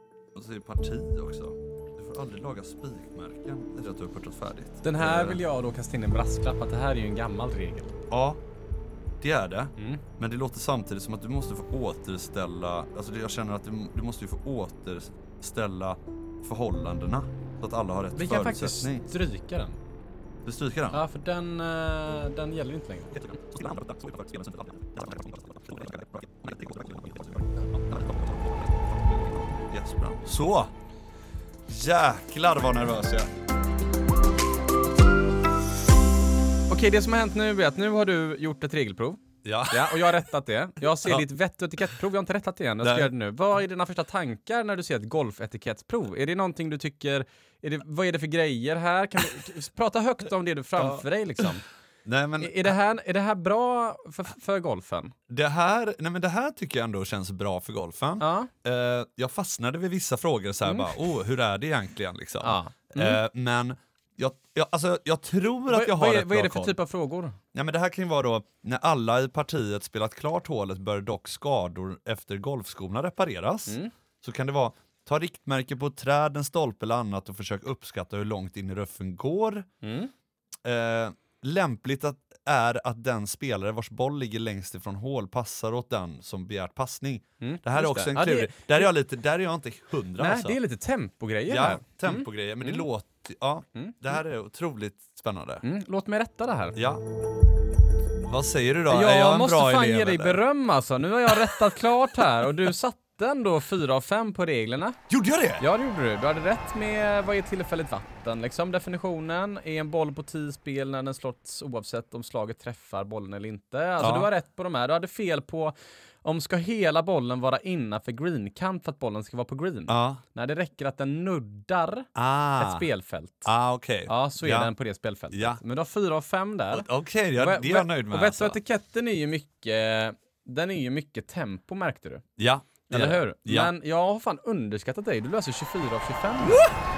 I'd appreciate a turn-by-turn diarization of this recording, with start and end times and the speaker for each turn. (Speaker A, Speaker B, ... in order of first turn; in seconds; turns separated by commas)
Speaker A: 0.3-5.4, Speaker B: 4.8-7.9, Speaker A: 8.1-8.4, Speaker A: 9.2-19.1, Speaker B: 9.8-10.0, Speaker B: 18.1-19.8, Speaker A: 20.4-21.0, Speaker B: 20.9-23.3, Speaker A: 23.1-30.7, Speaker A: 31.7-33.3, Speaker B: 36.7-51.6, Speaker A: 39.4-40.0, Speaker A: 42.8-43.1, Speaker A: 50.8-51.0, Speaker A: 52.1-52.8, Speaker B: 52.4-55.1, Speaker A: 55.3-66.8, Speaker B: 58.2-58.5, Speaker B: 60.7-60.9, Speaker B: 62.4-63.2, Speaker B: 65.7-67.4, Speaker A: 67.5-79.7, Speaker B: 73.7-73.9, Speaker B: 79.8-80.1, Speaker A: 80.6-90.6, Speaker B: 87.4-88.9, Speaker B: 90.2-92.9, Speaker A: 91.5-95.6, Speaker B: 93.8-94.2, Speaker B: 95.6-96.8, Speaker A: 96.8-97.0, Speaker A: 98.2-100.4, Speaker B: 98.9-105.0, Speaker A: 105.1-105.7, Speaker B: 105.6-123.5, Speaker A: 114.0-114.3, Speaker A: 119.9-120.2, Speaker A: 122.2-122.9, Speaker A: 123.5-124.7, Speaker B: 124.1-132.2, Speaker A: 125.3-125.6, Speaker A: 126.7-128.6, Speaker A: 132.4-133.7, Speaker B: 132.9-136.7